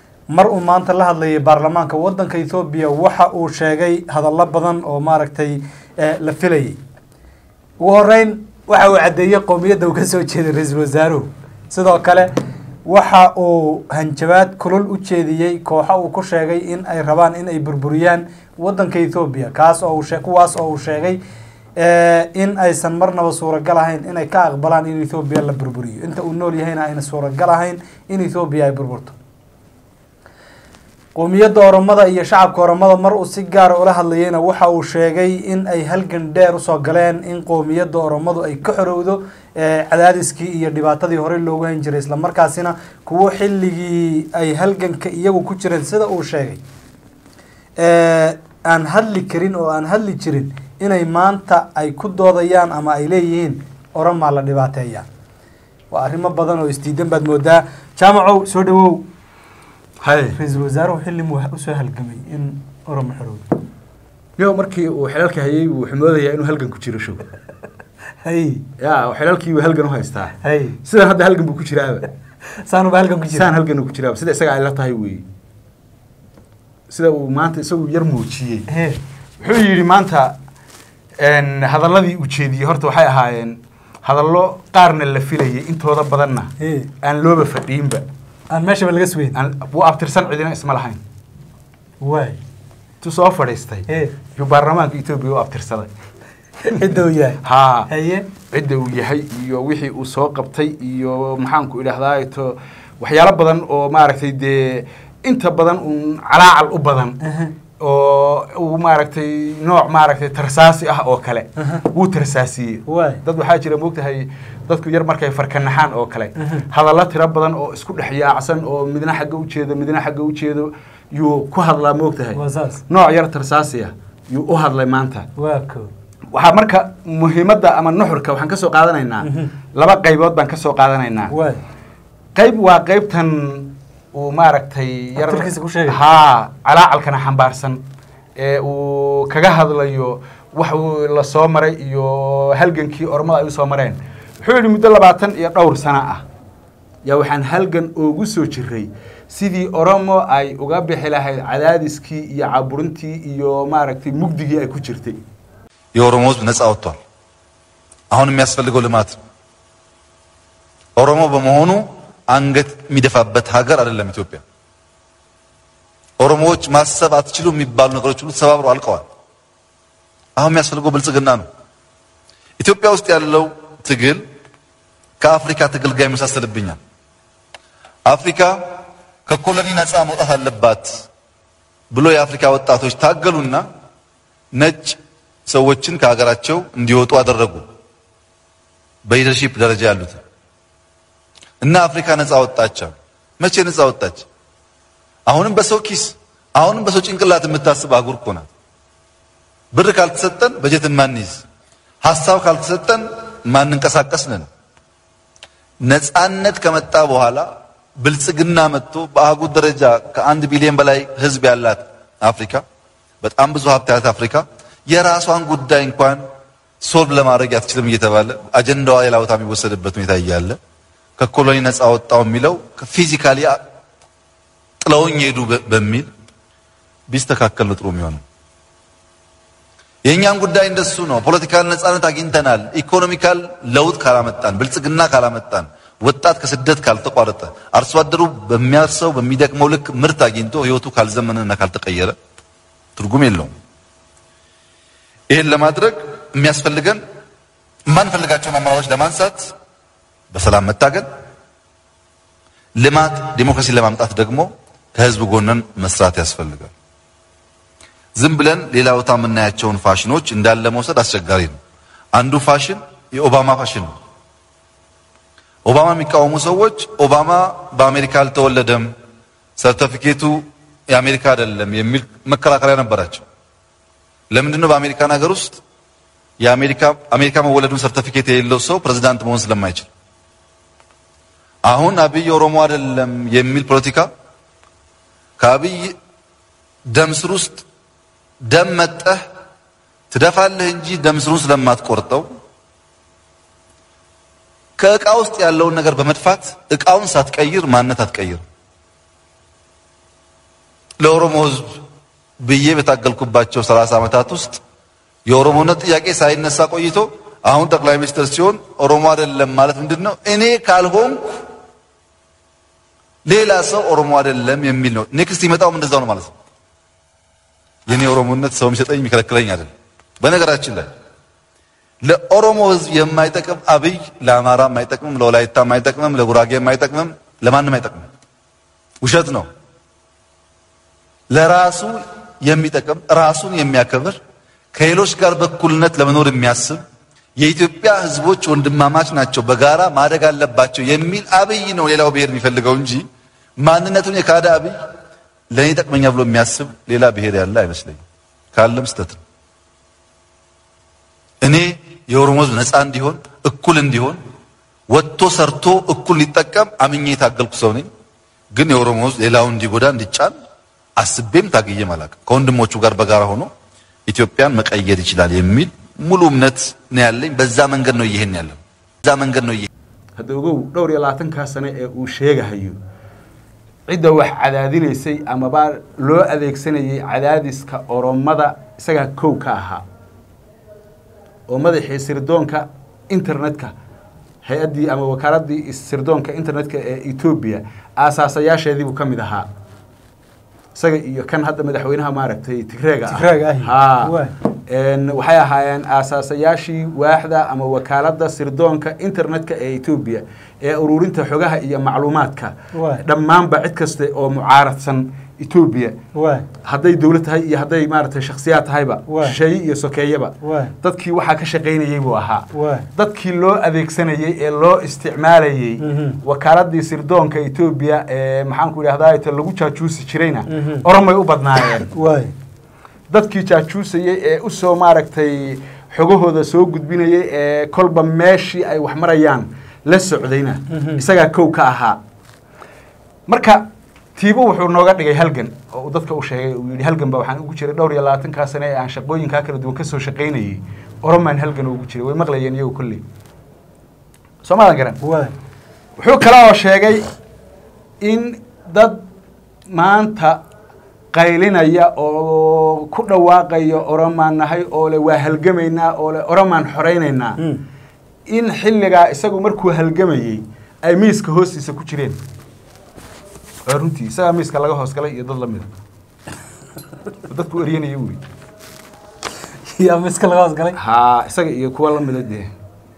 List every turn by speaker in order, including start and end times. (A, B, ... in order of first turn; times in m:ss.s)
0:00.3-0:06.8 A
0:07.8-0:12.3 A
0:12.8-0:21.2 A
0:21.8-0:29.2 A
0:31.1-0:46.6 A
0:47.8-0:55.0 A
0:55.9-0:59.0 A
1:00.0-1:00.4 B
1:00.3-1:03.4 A
1:04.4-1:07.2 B
1:08.2-1:08.6 A
1:08.8-1:12.1 B
1:10.4-1:10.8 A
1:12.6-1:13.5 A
1:13.3-1:15.2 B
1:16.9-1:18.7 B
1:18.7-1:19.0 A
1:19.4-1:20.4 B
1:21.2-1:28.0 B
1:26.6-1:26.9 A
1:28.5-1:29.4 A
1:29.3-1:31.0 B
1:32.0-1:32.4 A
1:33.0-1:35.9 B
1:33.9-1:34.1 A
1:36.6-1:38.3 A
1:37.4-1:37.9 B
1:38.5-1:47.2 B
1:47.2-1:47.5 A
1:47.8-2:05.3 B
1:51.6-1:51.8 A
1:52.9-1:53.2 A
1:56.4-1:56.6 A
2:02.3-2:02.8 A
2:05.4-2:05.9 A
2:06.3-2:11.3 B
2:09.2-2:09.5 A
2:11.3-2:11.6 A
2:12.3-2:17.8 B
2:15.2-2:16.0 A
2:18.4-2:26.2 B
2:27.0-2:35.2 B
2:35.9-2:37.0 C
2:38.1-2:39.2 C
2:41.0-2:44.4 C
2:46.2-2:49.0 C
2:50.4-2:51.4 C
2:52.6-2:54.2 C
2:55.2-2:56.8 C
2:58.1-2:58.6 C
2:59.2-3:01.0 C
3:01.9-3:03.6 C
3:04.5-3:07.6 C
3:09.0-3:10.2 C
3:11.6-3:14.2 C
3:15.3-3:18.5 C
3:19.7-3:21.4 C
3:22.0-3:24.4 C
3:25.8-3:32.6 C
3:33.2-3:36.2 C
3:36.8-3:40.6 C
3:41.2-3:43.6 C
3:44.8-3:46.1 C
3:47.1-3:48.2 C
3:50.1-4:02.1 C
4:03.0-4:03.5 C
4:05.3-4:07.0 C
4:07.9-4:09.5 C
4:10.3-4:11.1 C
4:12.8-4:16.7 C
4:18.2-4:21.6 C
4:22.1-4:23.9 C
4:25.6-4:28.9 C
4:29.6-4:33.2 C
4:34.3-4:35.6 C
4:36.4-4:39.9 C
4:41.6-4:44.1 C
4:45.4-4:46.0 C
4:46.9-4:47.6 C
4:48.5-4:49.2 C
4:50.1-4:52.2 C
4:54.8-4:58.4 C
5:01.0-5:01.8 C
5:02.4-5:04.6 C
5:05.3-5:11.4 C
5:13.2-5:16.3 C
5:17.9-5:20.9 C
5:22.0-5:28.1 C
5:29.0-5:29.5 C
5:31.3-5:34.2 C
5:34.7-5:36.8 C
5:37.4-5:43.0 C
5:43.6-5:44.7 C
5:45.5-5:48.0 C
5:48.5-5:49.2 C
5:51.4-5:54.2 C
5:54.9-5:57.9 C
5:58.5-6:00.3 C
6:01.0-6:03.5 C
6:04.1-6:09.7 C
6:10.2-6:12.8 B
6:13.9-6:19.8 B
6:21.5-6:23.7 B
6:24.4-6:29.5 B
6:30.7-6:34.1 B
6:33.1-6:34.3 A
6:34.7-6:46.0 B
6:42.7-6:43.0 A
6:46.1-6:46.5 A
6:46.6-7:01.9 B
6:49.1-6:49.4 A
6:50.4-6:50.7 A
6:52.5-6:52.9 A
6:55.8-6:56.2 A
7:00.5-7:00.8 A
7:01.9-7:02.3 A
7:03.1-7:12.0 B
7:10.7-7:11.0 A
7:13.3-7:23.0 B
7:24.4-7:25.0 B
7:25.0-7:25.3 A
7:26.0-7:27.1 B
7:28.0-7:29.0 B
7:29.7-7:30.4 B
7:31.1-7:37.4 B
7:38.3-7:42.2 B
7:43.6-7:45.7 B
7:47.3-7:48.2 B
7:49.6-7:50.8 A
7:50.8-7:52.5 B